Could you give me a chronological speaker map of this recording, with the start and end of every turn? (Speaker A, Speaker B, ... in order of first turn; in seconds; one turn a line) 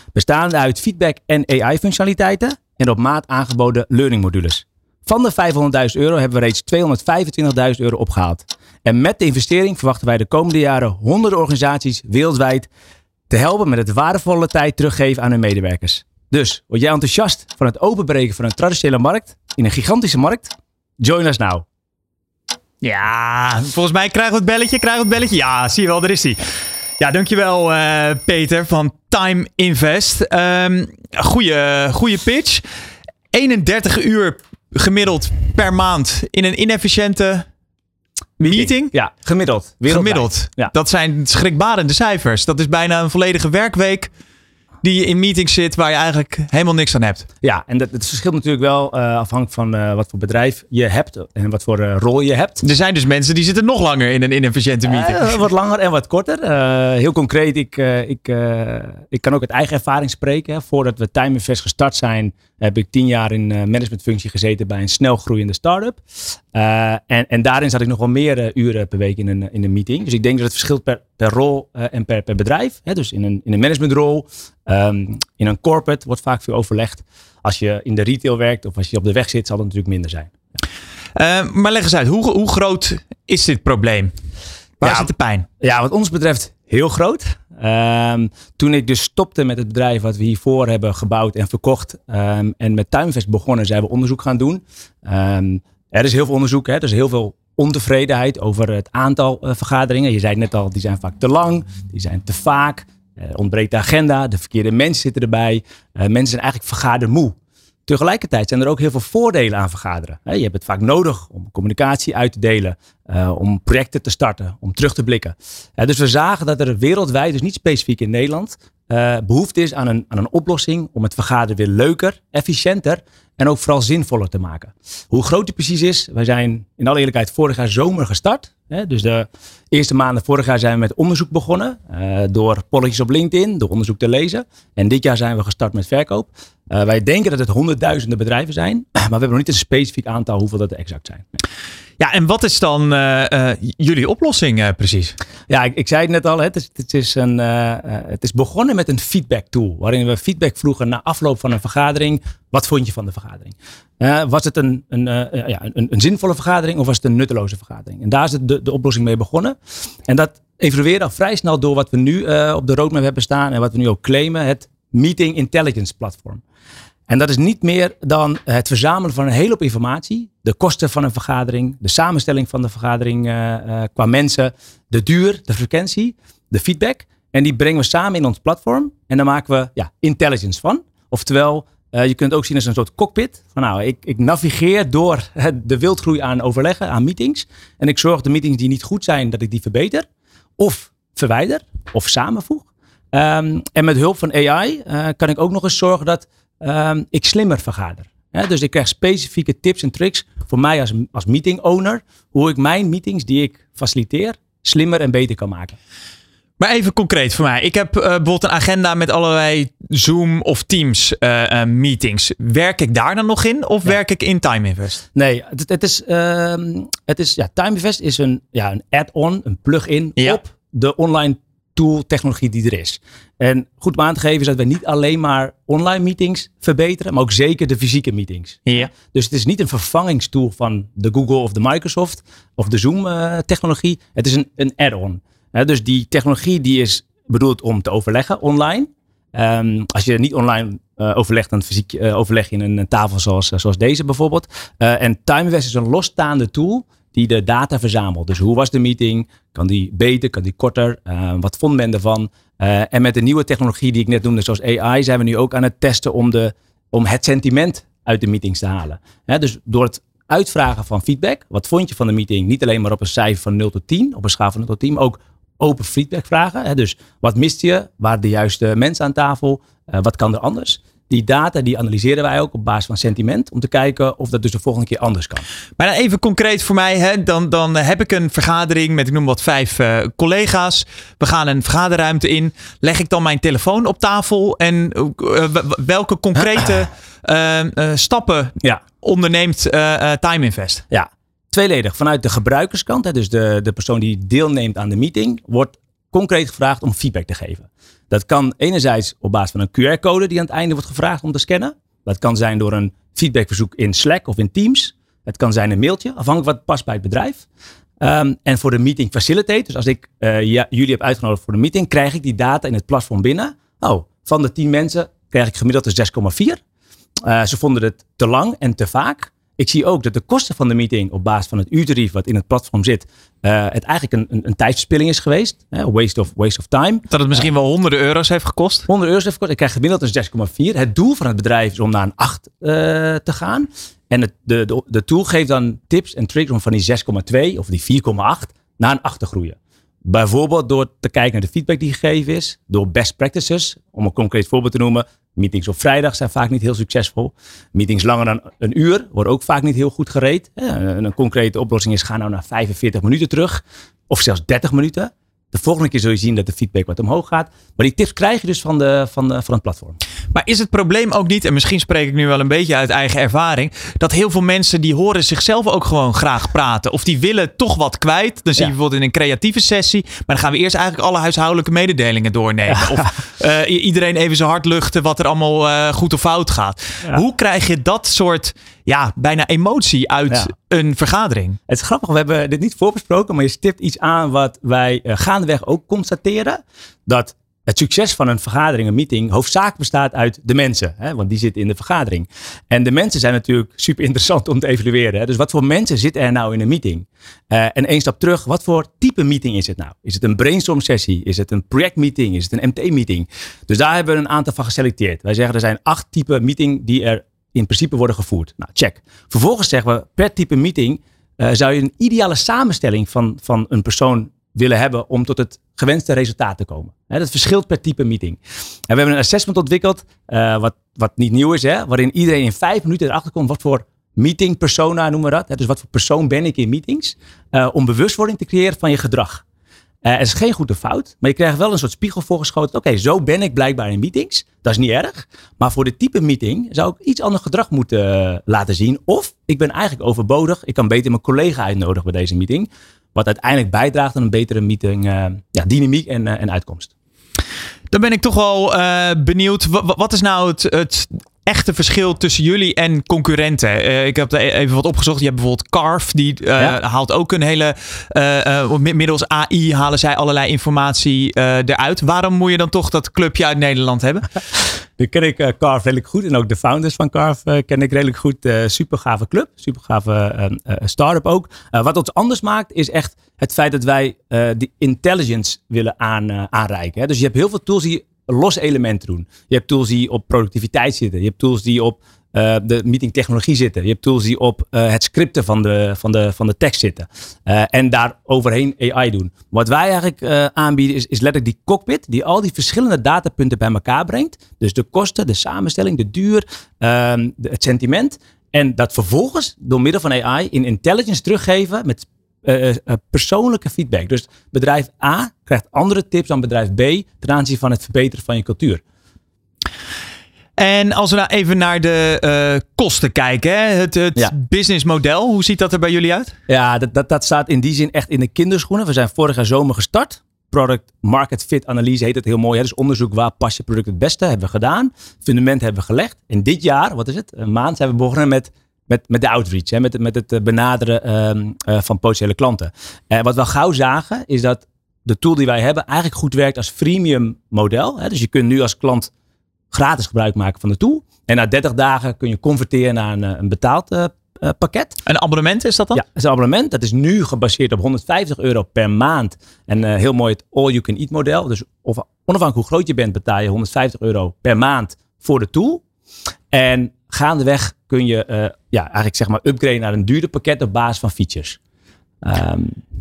Speaker A: 0.1-12.7
Speaker A: 13.3-21.6
Speaker B: 22.8-26.4
Speaker B: 27.0-32.6
Speaker B: 33.3-37.5
Speaker A: 38.4-40.7
Speaker B: 38.5-38.9
Speaker B: 39.9-44.1
Speaker B: 44.8-47.3
Speaker A: 47.4-52.6
Speaker B: 52.6-55.4
Speaker A: 54.9-80.3
Speaker B: 81.2-84.1
Speaker B: 84.8-85.5
Speaker A: 84.8-107.4
Speaker A: 107.9-141.2
Speaker B: 142.0-145.2
Speaker A: 145.5-166.4
Speaker A: 167.1-190.1
Speaker A: 190.6-205.8
Speaker B: 206.6-215.0
Speaker A: 215.2-275.4
Speaker B: 275.8-290.8
Speaker A: 290.9-307.4
Speaker A: 308.0-316.6
Speaker A: 317.2-327.5
Speaker B: 327.1-328.9
Speaker A: 328.9-360.0
Speaker B: 360.3-381.6
Speaker A: 372.7-373.1
Speaker A: 381.7-429.4
Speaker A: 430.0-446.9
Speaker B: 447.9-464.3
Speaker A: 465.0-508.8
Speaker B: 510.6-516.3
Speaker A: 516.5-539.1
Speaker A: 539.7-545.0
Speaker B: 545.1-546.0
Speaker A: 545.9-555.8
Speaker A: 556.5-561.6
Speaker A: 562.2-562.8